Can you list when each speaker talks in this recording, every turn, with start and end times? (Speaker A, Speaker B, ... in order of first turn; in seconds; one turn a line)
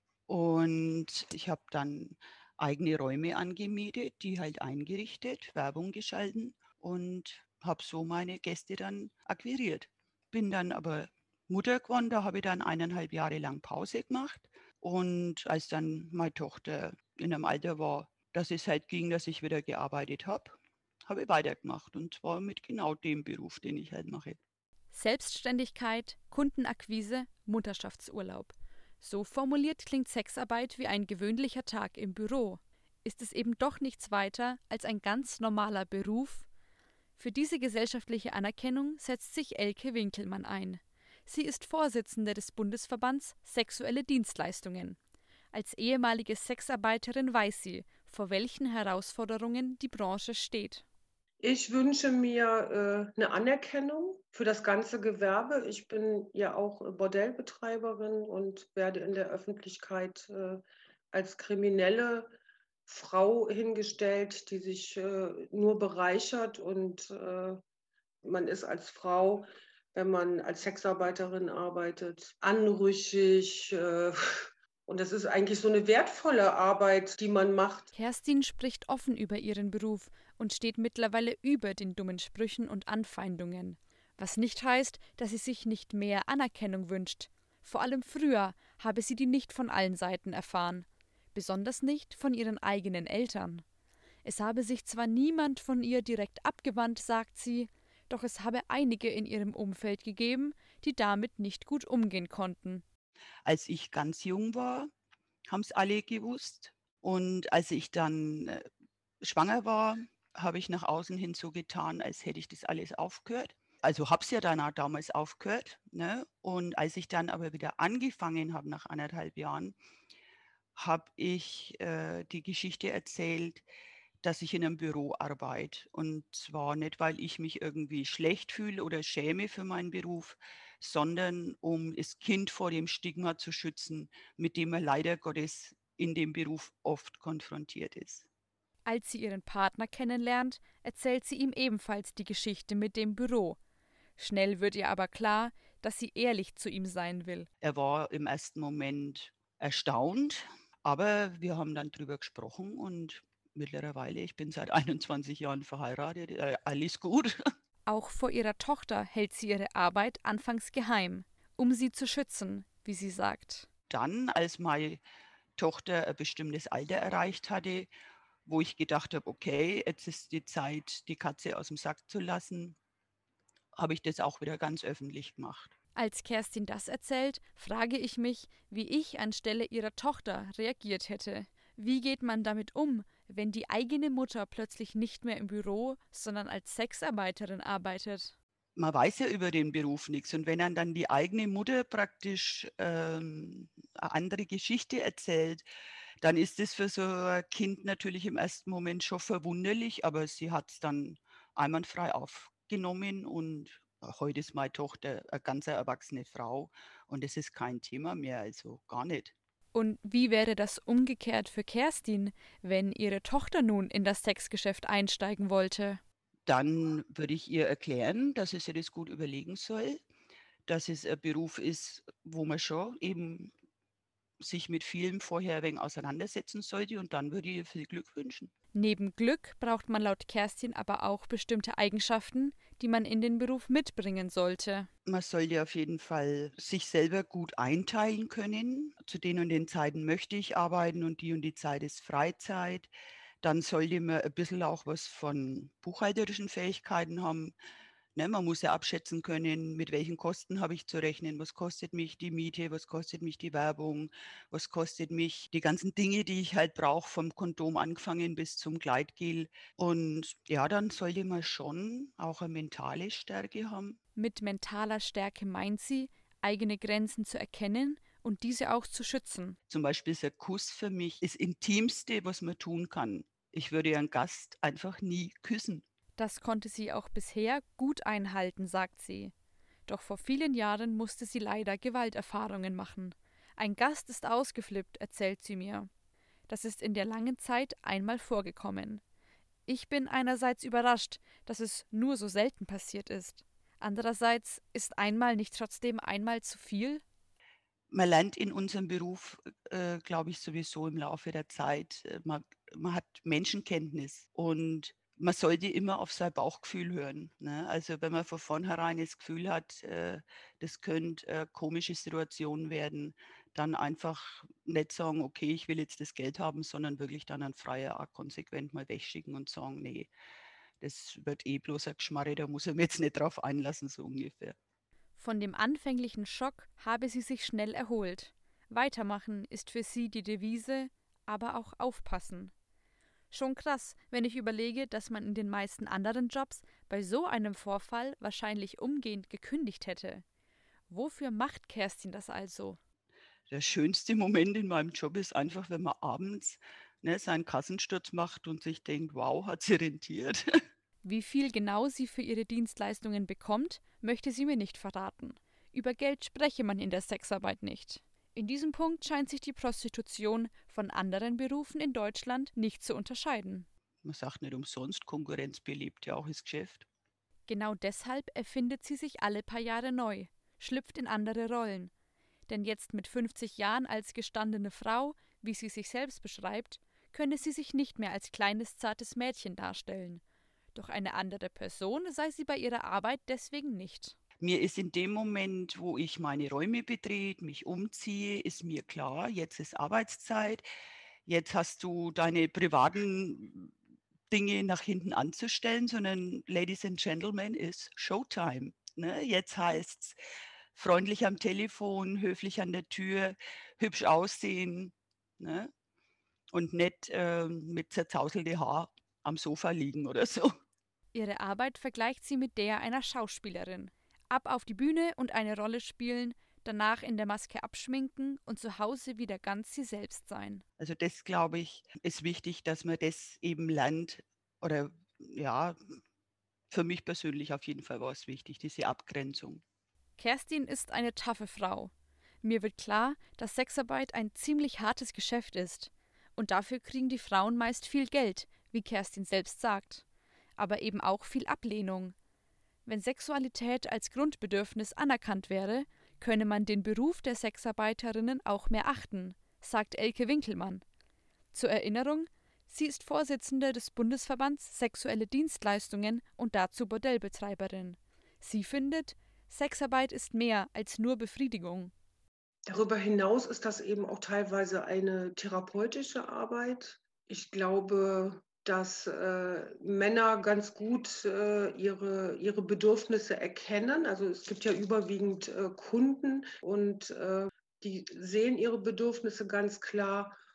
Speaker A: 0.3-24.4
Speaker B: 24.9-36.5
Speaker B: 37.2-45.0
Speaker B: 45.5-50.8
Speaker C: 51.4-60.6
Speaker C: 61.1-62.3
Speaker C: 62.9-67.6
Speaker C: 68.2-77.9
Speaker B: 77.9-93.6
Speaker B: 94.2-102.8
Speaker A: 103.4-104.9
Speaker A: 105.5-108.6
Speaker A: 109.2-119.7
Speaker A: 120.8-123.6
Speaker A: 124.2-138.2
Speaker B: 138.8-143.6
Speaker B: 144.2-147.5
Speaker A: 147.6-157.3
Speaker B: 157.8-163.7
Speaker A: 163.9-165.0
Speaker A: 165.6-167.9
Speaker A: 168.4-172.8
Speaker A: 173.8-175.7
Speaker B: 175.9-188.3
Speaker A: 188.8-195.6
Speaker A: 196.2-209.3
Speaker B: 209.7-216.0
Speaker A: 216.5-220.0
Speaker A: 220.7-223.5
Speaker A: 224.4-228.5
Speaker B: 228.7-234.9
Speaker A: 235.1-242.9
Speaker A: 243.4-247.5
Speaker A: 248.2-264.0
Speaker B: 264.1-269.6
Speaker A: 269.7-275.8
Speaker B: 276.2-279.3
Speaker B: 279.9-285.9
Speaker B: 286.5-289.0
Speaker B: 289.7-297.0
Speaker A: 297.9-320.1
Speaker A: 320.8-324.6
Speaker B: 325.2-332.5
Speaker B: 333.3-340.2
Speaker B: 340.9-342.8
Speaker A: 343.5-350.4
Speaker B: 351.0-363.7
Speaker A: 364.0-366.9
Speaker B: 367.5-371.9
Speaker B: 372.5-380.2
Speaker B: 380.7-384.1
Speaker A: 384.4-390.6
Speaker A: 391.2-393.7
Speaker A: 394.3-400.2
Speaker A: 400.7-405.7
Speaker A: 406.5-410.5
Speaker B: 411.1-420.6
Speaker A: 420.8-425.8
Speaker A: 426.7-429.6
Speaker B: 430.2-440.0
Speaker B: 440.6-442.1
Speaker B: 442.8-450.8
Speaker B: 451.5-461.9
Speaker C: 462.7-480.3